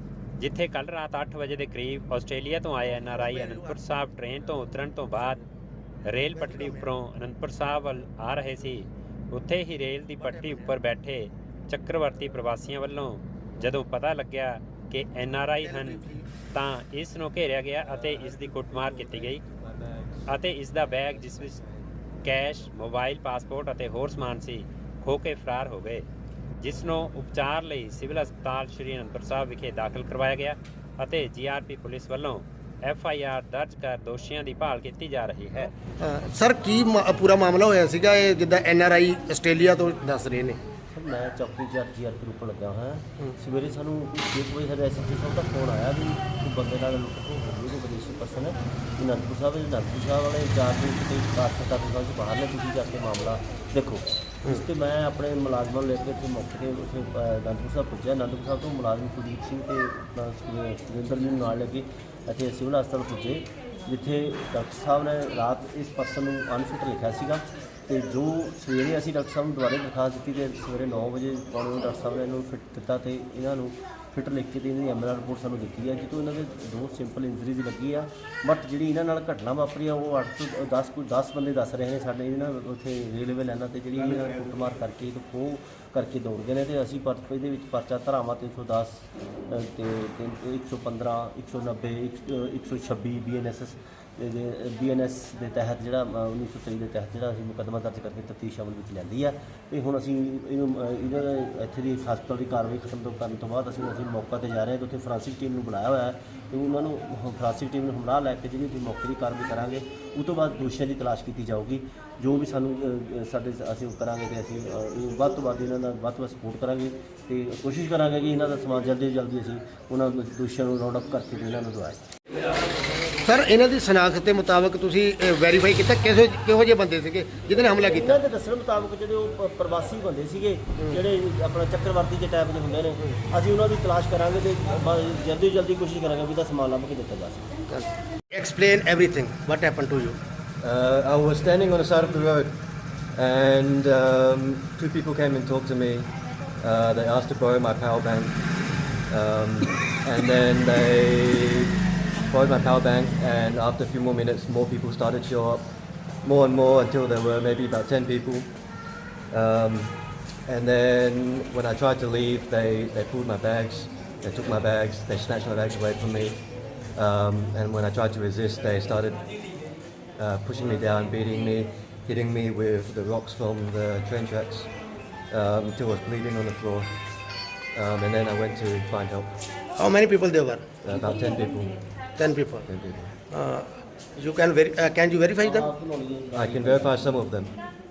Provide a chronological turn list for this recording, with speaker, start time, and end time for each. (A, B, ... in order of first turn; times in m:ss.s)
0:00.4-0:05.4 A
0:03.1-0:03.8 B
0:04.5-0:05.4 B
0:06.0-0:19.4 A
0:06.1-0:06.9 B
0:10.2-0:10.7 B
0:15.6-0:16.2 B
0:17.8-0:22.0 C
0:20.3-0:21.6 A
0:22.2-0:26.0 A
0:26.6-0:35.7 A
0:36.0-0:40.6 B
0:40.9-2:02.0 D
2:03.2-2:08.2 B
2:07.7-2:17.5 D
2:17.7-2:20.2 B
2:20.6-2:22.5 C
2:23.1-2:28.4 C
2:29.1-2:31.7 C
2:32.3-2:35.6 C
2:36.2-2:38.5 C
2:39.3-2:46.4 C
2:46.9-2:49.2 C
2:50.2-2:54.7 C
2:55.3-2:56.9 C
2:57.7-2:59.3 C
2:59.8-3:00.8 B
3:00.8-3:01.8 C
3:02.2-3:02.6 B
3:02.7-3:03.2 C
3:03.3-3:05.7 B
3:05.4-3:07.2 D
3:06.3-3:07.5 C